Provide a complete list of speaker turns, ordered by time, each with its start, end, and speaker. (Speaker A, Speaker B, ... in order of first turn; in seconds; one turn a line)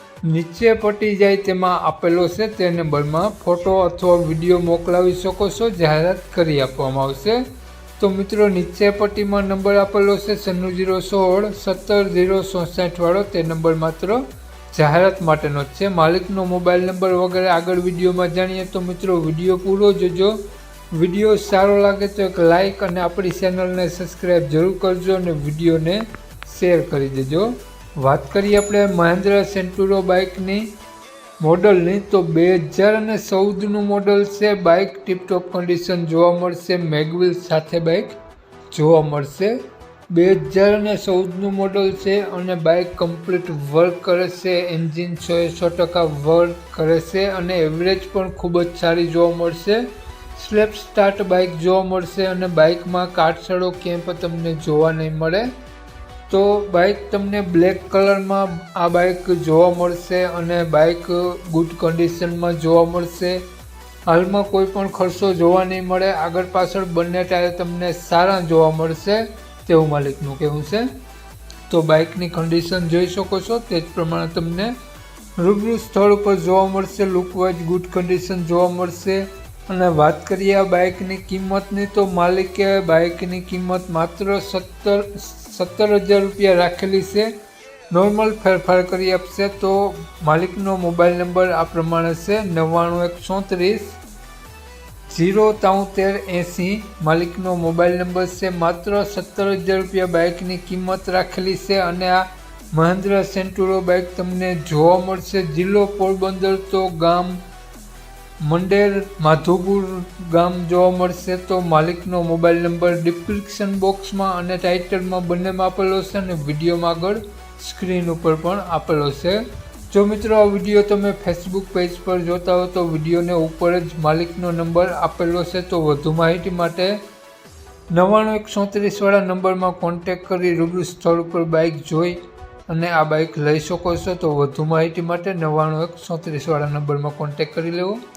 Speaker A: 0.2-7.4
Speaker A: 8.0-20.4
Speaker A: 20.9-30.7
Speaker A: 31.4-38.2
Speaker A: 38.7-39.6
Speaker A: 40.1-55.5
Speaker A: 56.3-63.4
Speaker A: 64.1-70.9
Speaker A: 71.7-74.7
Speaker A: 75.4-87.3
Speaker A: 87.9-94.0
Speaker A: 95.1-107.4
Speaker A: 108.4-127.0
Speaker A: 127.9-138.0